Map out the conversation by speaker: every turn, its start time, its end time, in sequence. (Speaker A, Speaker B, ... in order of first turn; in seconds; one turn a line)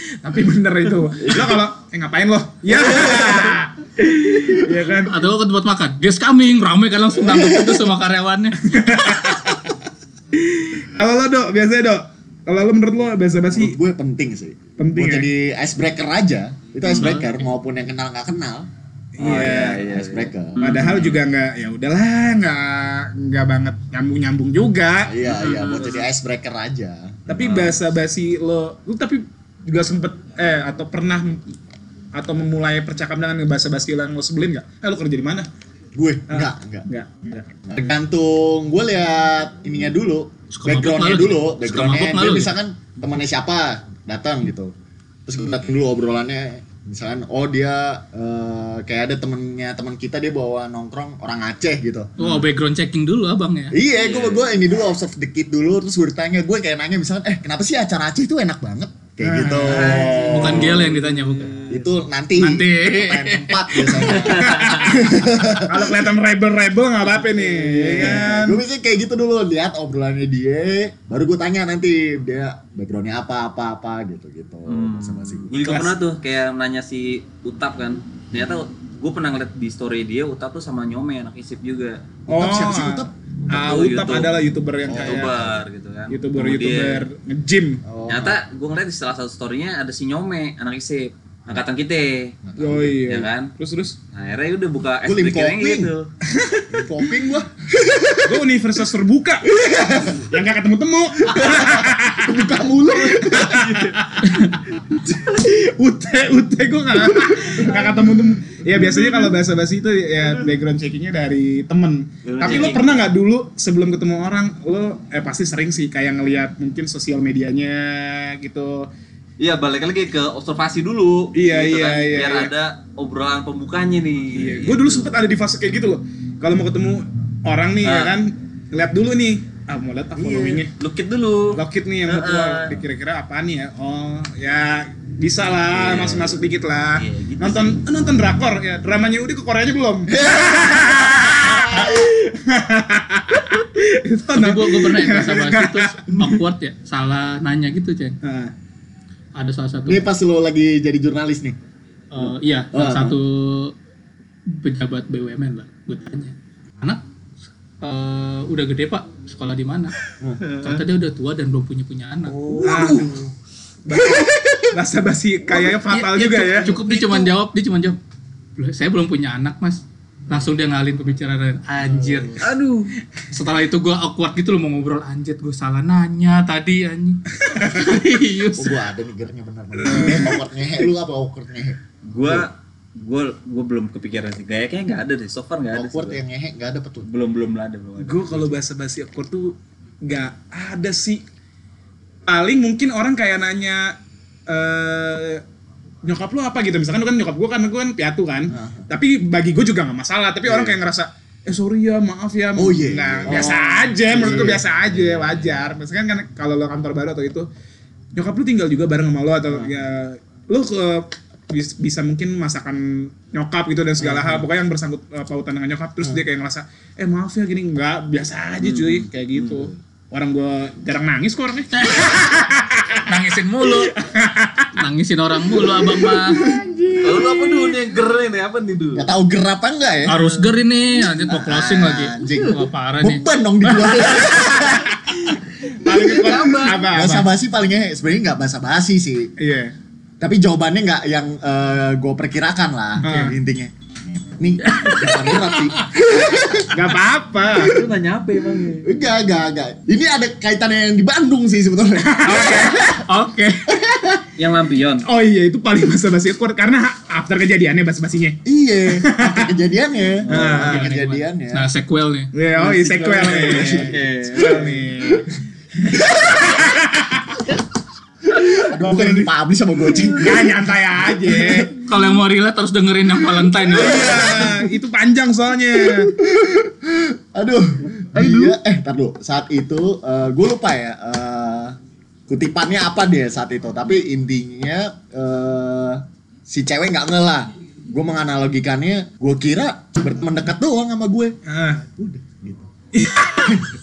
Speaker A: 0.2-5.2
Speaker B: 1.2-1.5
Speaker B: 2.9-3.5
Speaker C: 4.8-9.4
Speaker B: 7.2-7.8
Speaker A: 8.7-9.5
Speaker A: 10.4-13.8
Speaker B: 13.5-18.7
Speaker A: 14.8-15.3
Speaker D: 16.9-17.3
Speaker A: 19.1-19.8
Speaker D: 19.2-21.2
Speaker B: 19.2-20.7
Speaker A: 20.6-25.1
Speaker B: 25.1-27.6
Speaker D: 25.2-26.1
Speaker A: 27.3-31.4
Speaker D: 27.4-27.7
Speaker A: 32.1-35.5
Speaker B: 35.9-36.9
Speaker A: 36.3-37.5
Speaker B: 37.7-44.7
Speaker C: 40.5-42.5
Speaker B: 45.2-52.1
Speaker D: 52.2-52.5
Speaker C: 52.2-53.7
Speaker B: 53.7-60.9
Speaker D: 54.0-54.6
Speaker A: 59.2-60.2
Speaker D: 59.6-62.0
Speaker C: 60.3-61.5
Speaker B: 61.7-65.9
Speaker C: 62.3-64.2
Speaker D: 63.9-64.9
Speaker A: 64.4-68.6
Speaker B: 67.4-75.5
Speaker D: 67.9-68.3
Speaker D: 74.7-82.0
Speaker A: 75.6-76.0
Speaker B: 82.3-83.1
Speaker A: 82.3-85.4
Speaker D: 83.5-84.3
Speaker B: 84.8-85.6
Speaker D: 84.9-87.1
Speaker A: 86.1-87.8
Speaker B: 87.8-88.4
Speaker D: 88.1-92.4
Speaker B: 92.5-93.0
Speaker A: 92.6-94.0
Speaker D: 93.0-93.5
Speaker D: 94.1-96.1
Speaker B: 95.0-95.9
Speaker A: 96.3-96.8
Speaker B: 96.7-98.4
Speaker A: 98.2-118.9
Speaker B: 99.4-100.2
Speaker B: 101.2-103.8
Speaker D: 103.4-104.0
Speaker D: 112.2-113.0
Speaker D: 119.4-125.2
Speaker A: 121.3-122.5
Speaker A: 124.3-130.7
Speaker D: 127.8-128.2
Speaker D: 130.2-132.8
Speaker A: 131.5-146.4
Speaker D: 135.7-137.8
Speaker B: 140.1-142.1
Speaker C: 144.3-148.2
Speaker A: 148.2-148.5
Speaker C: 149.3-150.1
Speaker B: 149.8-151.6
Speaker C: 152.1-153.7
Speaker B: 152.2-153.2
Speaker C: 154.5-157.0
Speaker C: 157.8-159.9
Speaker D: 160.4-160.8
Speaker C: 160.6-162.4
Speaker D: 162.3-163.3
Speaker B: 162.5-163.1
Speaker A: 162.6-163.1
Speaker A: 163.9-166.8
Speaker B: 163.9-164.7
Speaker C: 165.5-168.0
Speaker B: 166.9-167.3
Speaker C: 168.6-172.4
Speaker B: 171.9-172.4
Speaker D: 172.4-172.9
Speaker C: 173.3-178.8
Speaker B: 178.5-182.4
Speaker A: 179.9-180.3
Speaker D: 182.1-186.2
Speaker B: 185.7-187.1
Speaker D: 187.1-188.5
Speaker A: 188.0-191.2
Speaker A: 192.3-193.9
Speaker A: 194.5-195.4
Speaker A: 196.0-207.5
Speaker B: 198.5-198.9
Speaker B: 200.5-200.7
Speaker B: 202.6-204.7
Speaker D: 205.0-205.4
Speaker A: 208.1-223.0
Speaker B: 209.5-209.8
Speaker B: 214.0-214.4
Speaker D: 218.6-219.7
Speaker C: 221.7-222.4
Speaker C: 223.1-223.9
Speaker A: 223.6-224.7
Speaker C: 224.8-226.4
Speaker A: 225.6-227.4
Speaker B: 226.3-227.6
Speaker D: 227.0-229.1
Speaker B: 228.9-230.3
Speaker C: 230.1-233.2
Speaker B: 231.3-234.9
Speaker D: 232.2-232.6
Speaker A: 234.1-237.3
Speaker D: 235.9-236.8
Speaker B: 236.3-239.3
Speaker A: 239.4-239.7
Speaker B: 240.2-246.9
Speaker A: 243.0-243.4
Speaker C: 244.7-245.8
Speaker A: 246.7-247.7
Speaker D: 247.6-248.9
Speaker B: 248.8-253.1
Speaker A: 252.0-253.6
Speaker B: 253.7-254.2
Speaker D: 254.4-255.1
Speaker A: 255.1-258.4
Speaker B: 258.4-261.7
Speaker A: 258.9-259.5
Speaker D: 260.2-260.7
Speaker A: 260.3-260.9
Speaker C: 260.6-262.3
Speaker A: 262.3-267.4
Speaker D: 262.6-264.7
Speaker B: 263.0-265.1
Speaker B: 266.0-266.5
Speaker A: 268.4-269.3
Speaker B: 268.6-271.7
Speaker A: 270.1-271.7
Speaker C: 271.9-274.5
Speaker A: 273.7-276.1
Speaker B: 273.8-274.6
Speaker B: 275.9-292.6
Speaker D: 278.1-278.6
Speaker A: 291.4-291.8
Speaker A: 292.9-293.5
Speaker B: 293.3-293.7